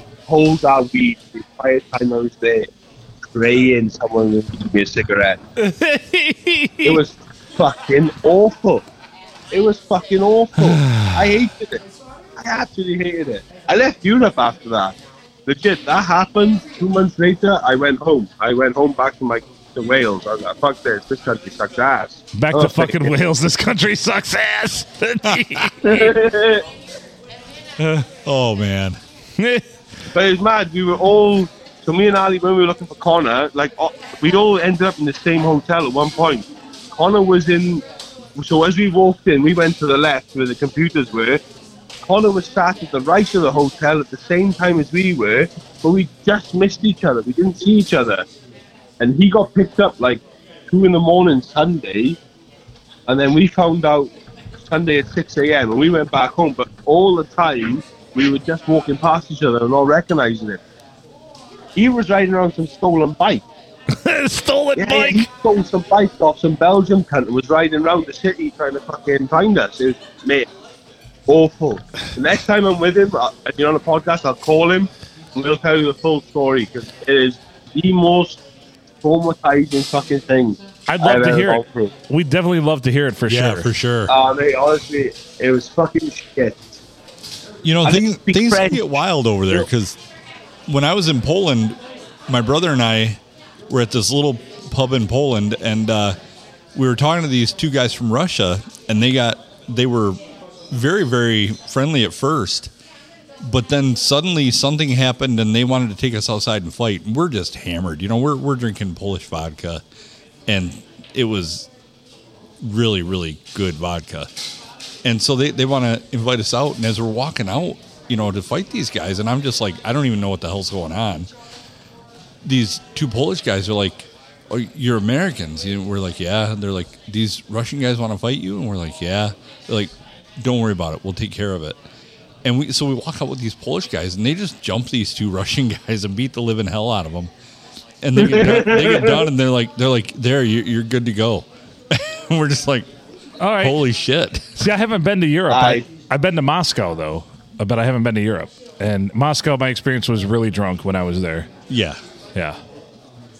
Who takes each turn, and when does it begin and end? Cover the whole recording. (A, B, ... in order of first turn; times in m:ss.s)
0:00.3-0:02.7 A
0:03.3-0:05.4 A
0:05.6-0:07.0 B
0:06.8-0:08.8 A
0:09.5-0:11.8 A
0:10.6-0:11.3 B
0:12.4-0:23.2 A
0:22.3-0:26.1 B
0:25.2-0:25.6 C
0:25.8-0:26.6 A
0:27.8-0:29.0 C
0:29.4-0:29.6 B
0:30.1-0:37.8 A
0:38.3-0:41.4 A
0:42.0-0:48.2 A
0:49.0-0:52.2 A
0:53.1-1:00.6 A
1:01.8-1:03.4 A
1:03.9-1:05.3 B
1:04.8-1:10.5 A
1:11.3-1:18.4 A
1:19.0-1:21.9 A
1:20.9-1:23.7 B
1:23.2-1:24.1 C
1:24.1-1:26.8 A
1:27.6-1:30.0 C
1:27.8-1:28.9 A
1:30.7-1:36.2 C
1:36.7-1:40.2 C
1:40.7-1:42.7 C
1:43.4-1:49.8 C
1:50.5-1:51.7 C
1:52.6-1:54.3 C
1:55.0-2:01.3 C
2:02.4-2:11.8 C
2:12.4-2:17.3 C
2:18.0-2:22.9 C
2:18.2-2:19.3 A
2:23.4-2:23.8 B
2:23.6-2:24.7 C
2:24.6-2:31.5 B
2:25.5-2:25.8 A
2:31.7-2:32.0 C